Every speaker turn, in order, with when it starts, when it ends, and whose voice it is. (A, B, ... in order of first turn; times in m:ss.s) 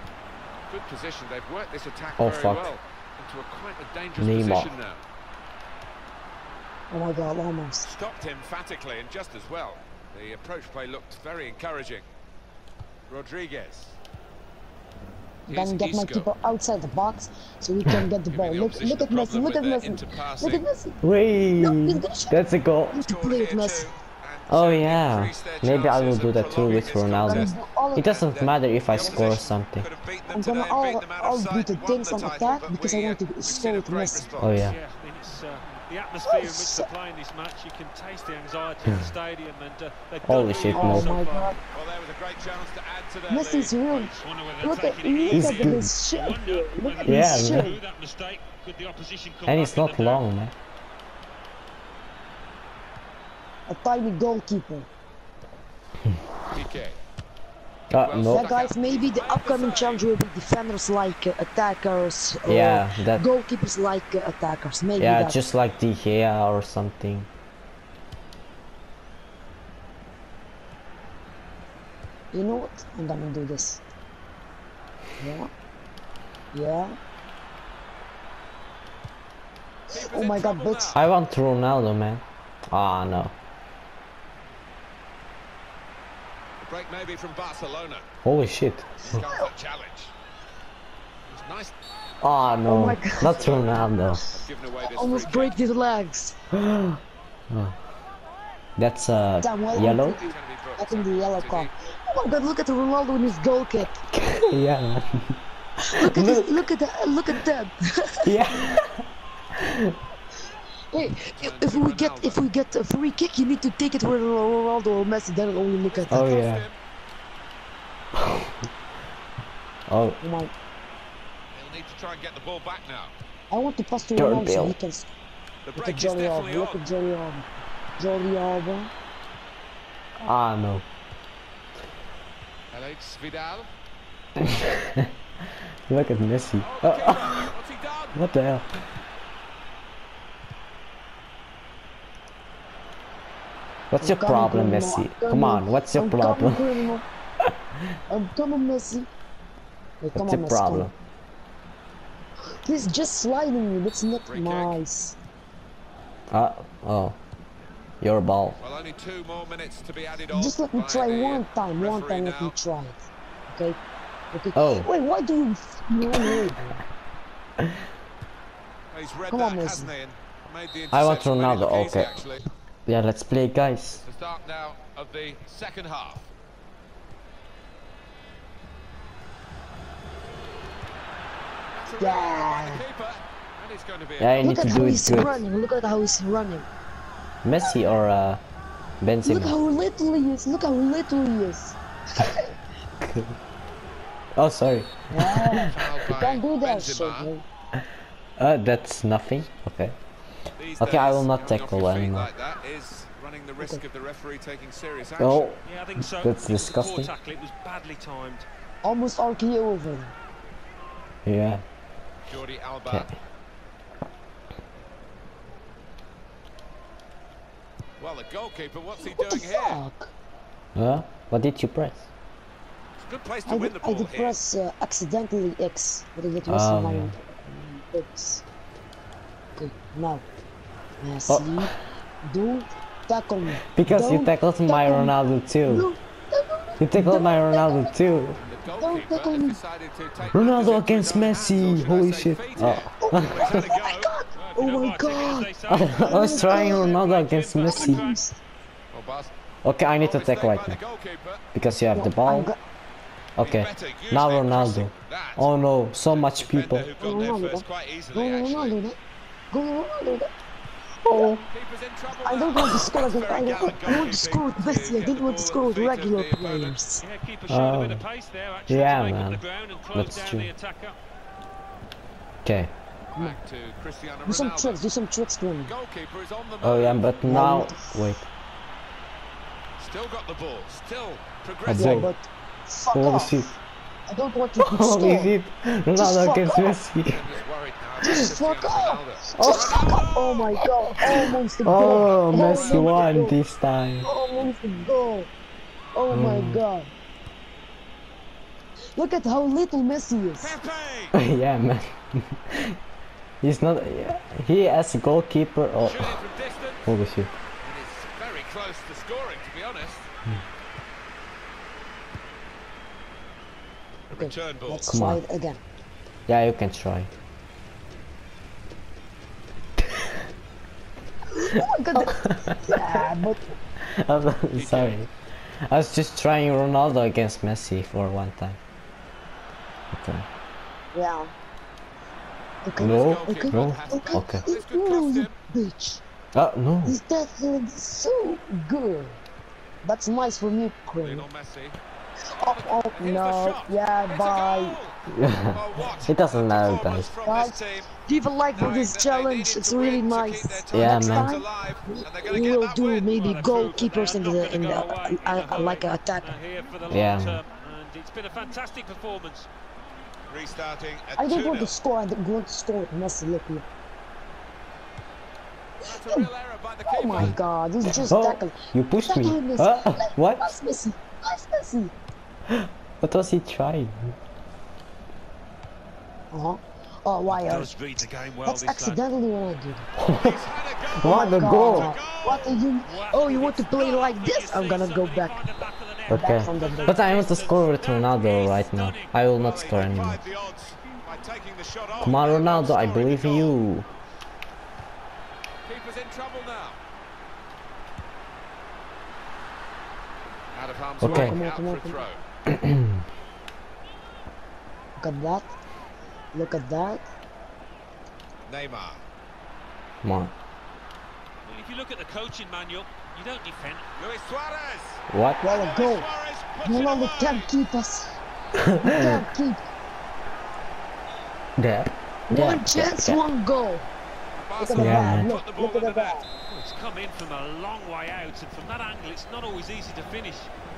0:00.7-0:05.0 A
0:02.2-0:02.7 B
0:04.2-0:04.7 B
0:06.9-0:07.9 C
0:07.8-0:12.1 A
0:13.1-0:14.0 A
0:15.5-0:16.3 A
0:15.5-0:21.0 C
0:18.3-0:20.6 A
0:21.0-0:23.0 B
0:21.6-0:22.4 C
0:22.9-0:23.9 C
0:23.0-0:34.7 A
0:24.5-0:29.9 B
0:27.2-0:28.1 C
0:30.3-0:34.3 C
0:34.4-0:34.8 B
0:34.5-0:41.6 D
0:36.2-0:36.9 C
0:40.2-0:41.1 B
0:40.7-0:41.6 C
0:41.7-0:44.1 A
0:43.3-0:47.8 C
0:44.0-0:50.2 D
0:45.3-0:45.9 B
0:47.0-0:47.8 B
0:49.5-0:50.5 B
0:53.7-0:54.9 C
0:56.5-0:57.0 A
0:57.9-0:58.5 B
0:57.9-1:00.1 A
0:58.3-1:05.5 C
1:02.4-1:03.2 B
1:05.0-1:07.3 B
1:12.3-1:13.8 C
1:15.2-1:15.5 C
1:16.5-1:17.0 C
1:19.9-1:21.0 A
1:19.9-1:21.0 C
1:20.9-1:23.3 B
1:26.6-1:28.1 A
1:28.2-1:29.2 B
1:29.0-1:30.1 A
1:29.2-1:29.5 C
1:31.3-1:31.7 A
1:32.2-1:34.2 B
1:32.7-1:33.7 C
1:33.0-1:35.6 A
1:34.8-1:36.4 C
1:36.6-1:37.0 B
1:38.8-1:40.2 B
1:39.4-1:44.0 C
1:40.2-1:41.7 A
1:44.1-1:45.4 B
1:45.9-1:48.4 C
1:46.0-1:46.6 B
1:48.2-1:49.0 B
1:49.6-1:50.0 B
1:50.9-1:56.4 C
1:51.4-1:52.4 A
1:55.8-1:56.8 A
1:56.1-1:56.7 B
1:58.2-1:58.5 B
1:59.9-2:00.2 B
2:00.2-2:00.5 C
2:01.5-2:03.1 A
2:03.5-2:05.1 C
2:04.2-2:04.8 B
2:05.6-2:06.8 A
2:05.8-2:07.5 C
2:08.0-2:08.9 C
2:10.2-2:10.8 B
2:12.7-2:13.7 A
2:14.4-2:15.1 B
2:15.9-2:17.5 B
2:16.6-2:18.2 A
2:18.2-2:18.7 B
2:23.9-2:26.7 B
2:24.0-2:27.0 C
2:28.1-2:29.1 C
2:30.0-2:30.9 C
2:30.2-2:30.9 B
2:32.6-2:35.2 C
2:34.2-2:34.8 A
2:36.3-2:37.2 B
2:38.0-2:38.6 B
2:38.6-2:42.6 A
2:40.3-2:43.8 C
2:44.3-2:46.8 C
2:44.6-2:44.9 B
2:48.9-2:52.4 A
2:49.3-2:49.9 C
2:50.9-2:52.2 B
2:52.9-2:54.0 B
2:54.0-2:56.3 A
3:01.7-3:04.9 A
3:02.0-3:02.8 C
3:04.2-3:05.4 B
3:04.4-3:06.7 C
3:07.4-3:08.4 B
3:09.0-3:09.6 B
3:09.2-3:12.5 C
3:13.0-3:13.4 B
3:14.4-3:15.7 B
3:15.1-3:17.4 C
3:15.6-3:17.3 A
3:18.4-3:20.0 B
3:20.6-3:25.5 A
3:20.8-3:22.3 B
3:25.2-3:27.1 B
3:25.6-3:28.5 D
3:28.8-3:30.2 C
3:31.3-3:31.6 B
3:32.3-3:33.1 A
3:38.0-3:39.8 A
3:39.0-3:40.1 C
3:40.8-3:42.1 B
3:43.0-3:44.4 A
3:43.5-3:48.4 C
3:46.5-3:47.1 B
3:49.6-3:50.2 C
3:51.0-3:51.7 C
3:51.3-3:51.8 B
3:52.2-3:55.2 C
3:53.7-3:55.9 B
3:55.7-3:57.9 C
3:56.8-3:58.4 B
3:58.4-4:04.7 A
3:58.8-3:59.6 C
4:00.3-4:03.6 B
4:03.0-4:06.9 C
4:04.6-4:08.2 D
4:05.7-4:08.0 B
4:06.8-4:07.7 A
4:07.7-4:08.4 C
4:08.9-4:09.3 A
4:09.6-4:10.8 B
4:10.0-4:11.4 A
4:11.5-4:12.5 B
4:12.0-4:12.6 C
4:13.4-4:16.9 B
4:13.4-4:15.5 A
4:16.1-4:18.8 A
4:17.0-4:19.0 C
4:19.5-4:20.3 C
4:21.1-4:21.4 C
4:21.1-4:21.4 B
4:21.5-4:26.8 A
4:22.2-4:27.0 C
4:27.0-4:31.0 D
4:27.5-4:28.0 B
4:28.7-4:29.4 B
4:29.9-4:30.5 B
4:32.4-4:32.7 B
4:33.1-4:34.8 A
4:34.3-4:35.7 C
4:35.6-4:37.1 A
4:36.6-4:38.3 B
4:37.2-4:38.2 C
4:39.8-4:42.1 A
4:41.7-4:42.1 B
4:41.7-4:43.5 C
4:42.9-4:43.6 B
4:44.1-4:45.4 C
4:44.6-4:47.3 B
4:46.0-4:46.8 C
4:47.1-4:50.4 A
4:48.0-4:53.4 C
4:49.4-4:50.0 B
4:51.2-4:54.1 B
4:52.3-4:53.1 A
4:54.0-4:55.3 C
4:55.9-4:56.9 C
4:56.1-4:56.6 B
4:59.0-5:00.5 C
5:00.4-5:01.2 A
5:01.1-5:02.8 B
5:03.4-5:06.2 B
5:05.8-5:06.9 A
5:06.9-5:07.3 B
5:07.6-5:10.1 A
5:14.1-5:14.9 A
5:14.1-5:15.6 C
5:14.9-5:15.2 B
5:16.3-5:17.1 B
5:21.4-5:23.5 C
5:22.0-5:23.0 B
5:23.8-5:25.1 B
5:24.5-5:25.0 A
5:25.7-5:28.6 B
5:29.9-5:30.2 B
5:30.9-5:31.3 C
5:32.6-5:36.0 C
5:32.8-5:34.4 B
5:32.8-5:35.4 A
5:36.3-5:37.0 B
5:36.8-5:39.2 C
5:39.8-5:41.3 C
5:41.0-5:41.8 A
5:42.4-5:44.8 C
5:42.4-5:45.0 A
5:45.1-5:47.1 B
5:45.5-5:47.9 A
5:47.2-5:56.4 C
5:48.5-5:53.2 A
5:50.7-5:51.4 B
5:53.1-5:59.5 D
5:56.9-5:57.4 B
6:00.3-6:01.7 A
6:01.2-6:03.7 C
6:05.8-6:07.4 A
6:05.9-6:06.3 C
6:06.9-6:11.9 C
6:07.9-6:10.5 B
6:12.5-6:14.2 B
6:16.3-6:17.7 C
6:17.3-6:19.0 D
6:18.4-6:19.9 C
6:20.0-6:20.4 B
6:20.1-6:22.6 A
6:21.0-6:21.9 B
6:21.0-6:25.4 C
6:22.8-6:29.2 D
6:26.1-6:27.1 C
6:26.1-6:30.2 B
6:29.4-6:33.6 A
6:32.0-6:33.9 B
6:35.6-6:36.8 A
6:40.5-6:42.2 A
6:41.0-6:41.4 B
6:41.0-6:42.0 C
6:42.5-6:43.0 B
6:45.0-6:45.5 C
6:46.3-6:47.0 C
6:48.4-6:49.0 A
6:50.0-6:50.3 B
6:51.4-6:53.9 D
6:54.0-6:57.5 A
6:55.1-6:55.4 B
6:55.4-6:56.1 C
6:56.6-6:58.2 C
6:58.6-6:58.9 B
6:58.8-6:59.6 C
7:01.6-7:03.2 B
7:02.3-7:03.9 C
7:04.4-7:06.2 A
7:04.6-7:06.3 C
7:04.8-7:05.3 B
7:06.5-7:10.5 D